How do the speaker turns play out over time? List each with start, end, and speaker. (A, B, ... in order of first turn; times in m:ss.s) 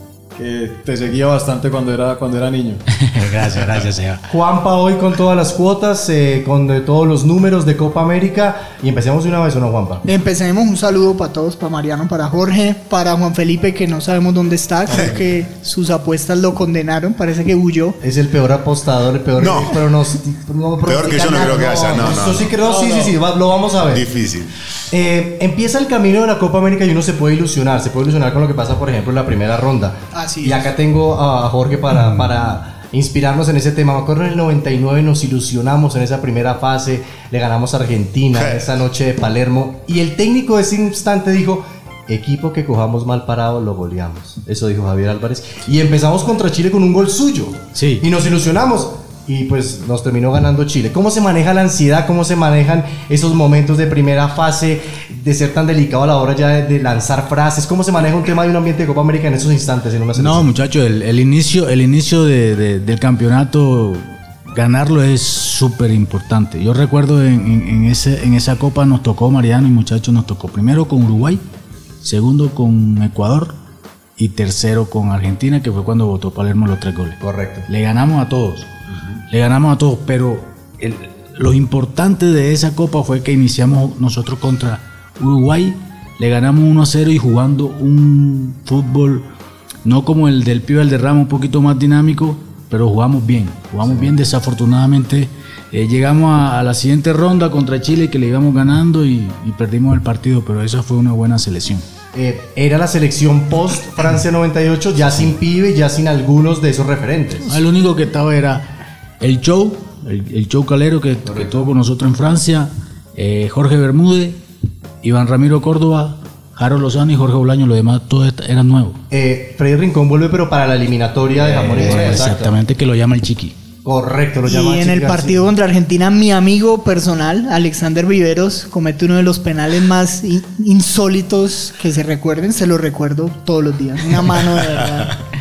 0:00.3-0:02.8 A
0:03.0-0:04.2 B
0:04.3-0:10.0 C
0:10.0-0:18.0 D
0:14.9-0:15.2 E
0:18.0-0:24.0 C
0:19.4-0:19.8 E
0:20.8-0:22.8 E
0:22.8-0:23.1 A
0:23.9-0:24.5 E
0:24.9-1:00.5 C
0:30.1-0:30.6 D
0:38.3-0:38.7 E
0:47.7-0:48.0 B
1:00.2-1:11.4 B
1:12.0-1:13.6 B
1:14.2-1:17.2 B
1:17.2-1:17.7 C
1:17.7-1:18.7 B
1:19.3-1:29.2 B
1:29.8-1:41.8 B
1:42.1-1:47.5 C
1:47.5-1:48.7 B
1:49.2-1:54.4 B
1:51.2-1:51.7 C
1:55.0-1:59.0 B
1:59.1-2:02.6 C
2:01.4-2:03.5 B
2:03.8-2:05.4 C
2:04.4-2:15.2 D